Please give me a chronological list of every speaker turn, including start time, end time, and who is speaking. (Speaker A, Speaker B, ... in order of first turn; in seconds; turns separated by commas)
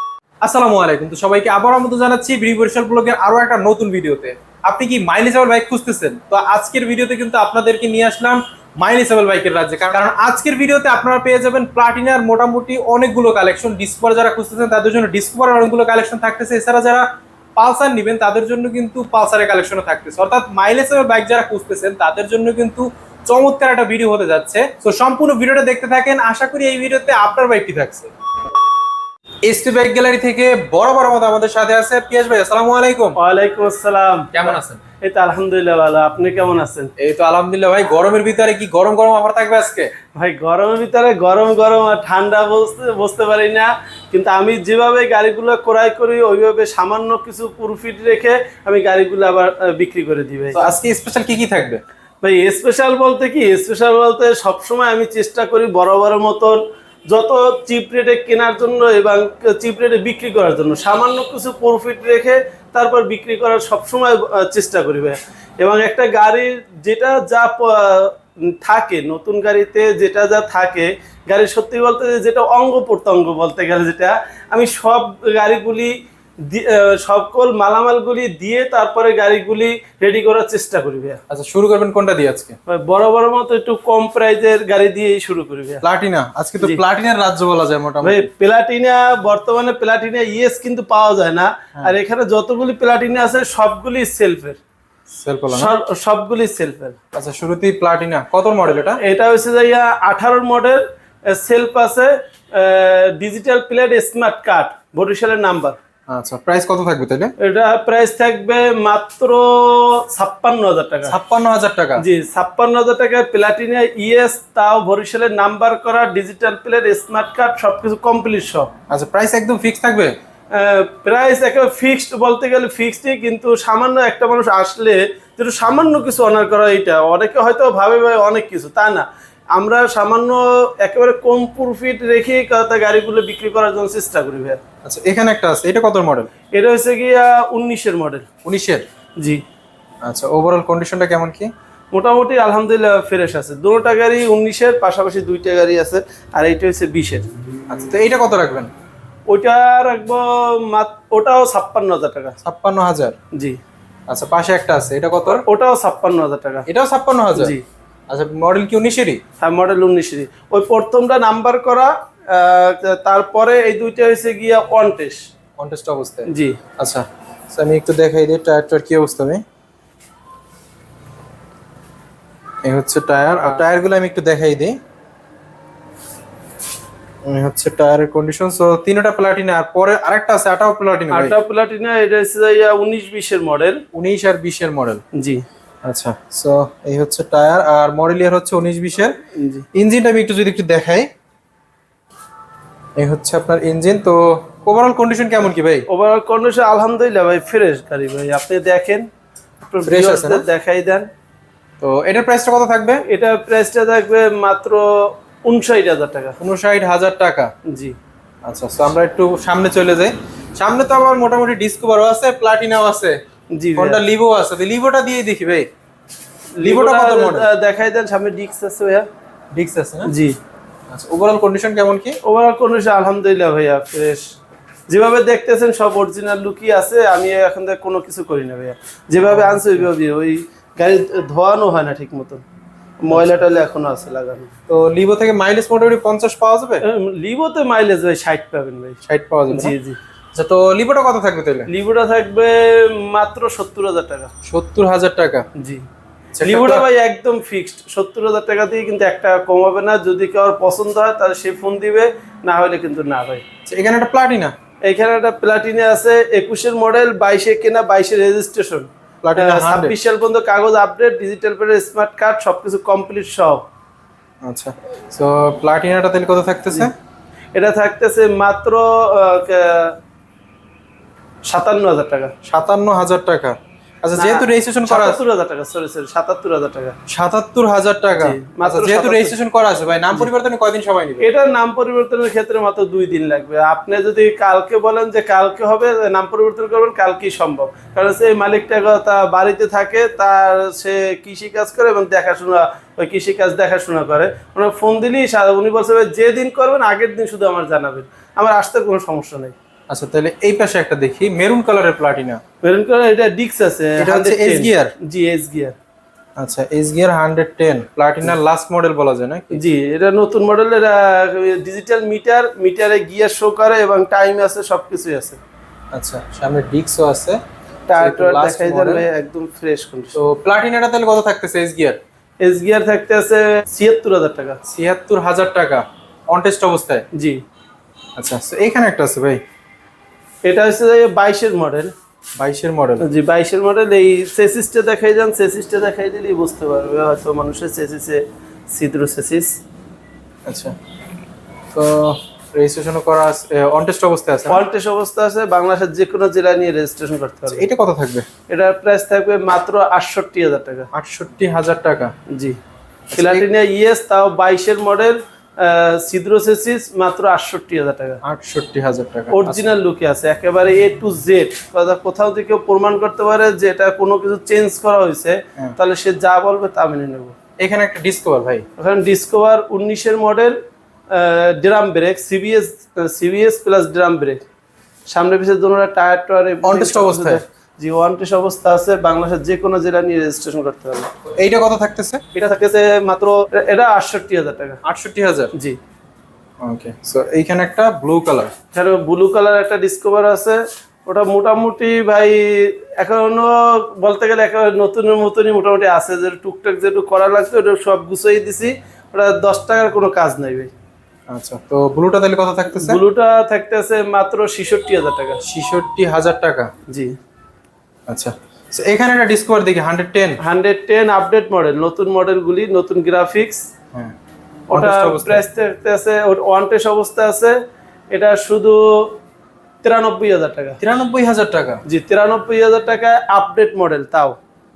Speaker A: 0.4-28.1, Speaker A: 29.4-33.2, Speaker B: 33.2-36.9, Speaker A: 34.3-34.8, Speaker A: 37.0-39.9, Speaker B: 40.1-50.6, Speaker A: 50.6-51.8, Speaker B: 52.2-56.6, Speaker B: 57.1-81.2, Speaker A: 81.3-82.5, Speaker B: 82.7-85.8, Speaker A: 85.8-88.3, Speaker B: 88.0-94.6, Speaker A: 95.1-95.7, Speaker B: 95.5-97.0, Speaker A: 97.1-99.0, Speaker B: 99.0-105.8, Speaker A: 106.1-107.3, Speaker B: 107.4-111.2, Speaker A: 111.1-112.0, Speaker B: 112.0-118.7, Speaker A: 118.9-120.1, Speaker B: 120.5-134.6, Speaker A: 134.8-136.3, Speaker B: 136.5-138.3, Speaker A: 138.4-138.8, Speaker A: 140.1-141.5, Speaker B: 141.9-147.2, Speaker A: 147.7-148.7, Speaker B: 149.3-152.3, Speaker A: 152.4-153.2, Speaker B: 153.3-153.6, Speaker A: 154.1-155.4, Speaker B: 155.3-156.7, Speaker A: 156.7-157.5, Speaker B: 157.3-157.6, Speaker A: 158.1-159.2, Speaker B: 159.4-165.2, Speaker A: 165.6-169.4, Speaker B: 166.3-166.6, Speaker A: 172.6-174.8, Speaker A: 177.2-181.3, Speaker B: 181.1-183.8, Speaker A: 183.9-185.0, Speaker B: 185.2-185.4, Speaker A: 185.8-189.1, Speaker B: 189.3-189.7, Speaker A: 189.7-191.1, Speaker A: 193.0-195.8, Speaker B: 195.9-199.0, Speaker B: 199.7-201.1, Speaker A: 199.8-200.4, Speaker A: 201.8-203.0, Speaker B: 203.1-206.4, Speaker A: 206.4-207.5, Speaker B: 207.7-207.9, Speaker A: 208.4-213.2, Speaker B: 213.5-214.0, Speaker A: 213.8-215.7, Speaker B: 216.6-219.1, Speaker A: 216.6-217.4, Speaker A: 219.5-220.1, Speaker B: 220.1-220.3, Speaker A: 220.9-222.2, Speaker B: 222.2-224.2, Speaker B: 224.9-232.4, Speaker A: 229.2-229.9, Speaker B: 233.0-234.5, Speaker A: 233.1-233.4, Speaker A: 234.7-236.8, Speaker B: 236.8-240.0, Speaker A: 239.1-239.7, Speaker A: 240.3-241.7, Speaker B: 241.7-244.3, Speaker A: 244.4-245.4, Speaker B: 245.6-245.8, Speaker A: 246.3-246.8, Speaker B: 246.4-253.4, Speaker A: 253.7-254.5, Speaker B: 254.8-263.6, Speaker A: 259.2-259.9, Speaker A: 264.4-266.9, Speaker B: 267.5-269.9, Speaker B: 271.5-272.3, Speaker A: 272.4-275.2, Speaker B: 274.1-276.9, Speaker A: 277.1-281.2, Speaker B: 278.2-279.4, Speaker B: 281.2-299.5, Speaker A: 299.9-302.4, Speaker B: 302.6-305.7, Speaker A: 304.0-304.9, Speaker A: 306.4-309.6, Speaker B: 309.5-315.4, Speaker A: 315.9-317.4, Speaker B: 317.9-320.2, Speaker A: 318.0-319.1, Speaker A: 320.1-322.0, Speaker B: 322.4-324.6, Speaker A: 324.6-327.0, Speaker A: 328.2-329.4, Speaker B: 330.4-331.9, Speaker A: 332.4-333.0, Speaker B: 333.0-339.5, Speaker A: 340.5-340.7, Speaker A: 341.7-344.6, Speaker B: 344.5-347.6, Speaker A: 347.5-348.2, Speaker B: 348.5-350.9, Speaker A: 350.9-352.1, Speaker B: 352.3-352.6, Speaker A: 353.1-353.4, Speaker B: 353.1-358.2, Speaker A: 358.2-359.7, Speaker B: 359.3-367.4, Speaker A: 367.6-368.6, Speaker B: 368.8-370.6, Speaker B: 371.1-374.4, Speaker B: 375.1-381.1, Speaker A: 376.6-377.4, Speaker A: 381.4-382.2, Speaker B: 382.3-384.8, Speaker A: 384.8-385.5, Speaker A: 386.6-388.5, Speaker B: 388.7-400.7, Speaker A: 401.3-403.0, Speaker B: 402.8-405.4, Speaker A: 405.4-406.7, Speaker B: 406.9-407.1, Speaker A: 408.1-410.4, Speaker B: 410.4-413.7, Speaker B: 414.7-417.6, Speaker A: 414.7-415.4, Speaker B: 418.1-419.1, Speaker B: 419.8-420.8, Speaker A: 420.8-421.8, Speaker B: 421.9-424.4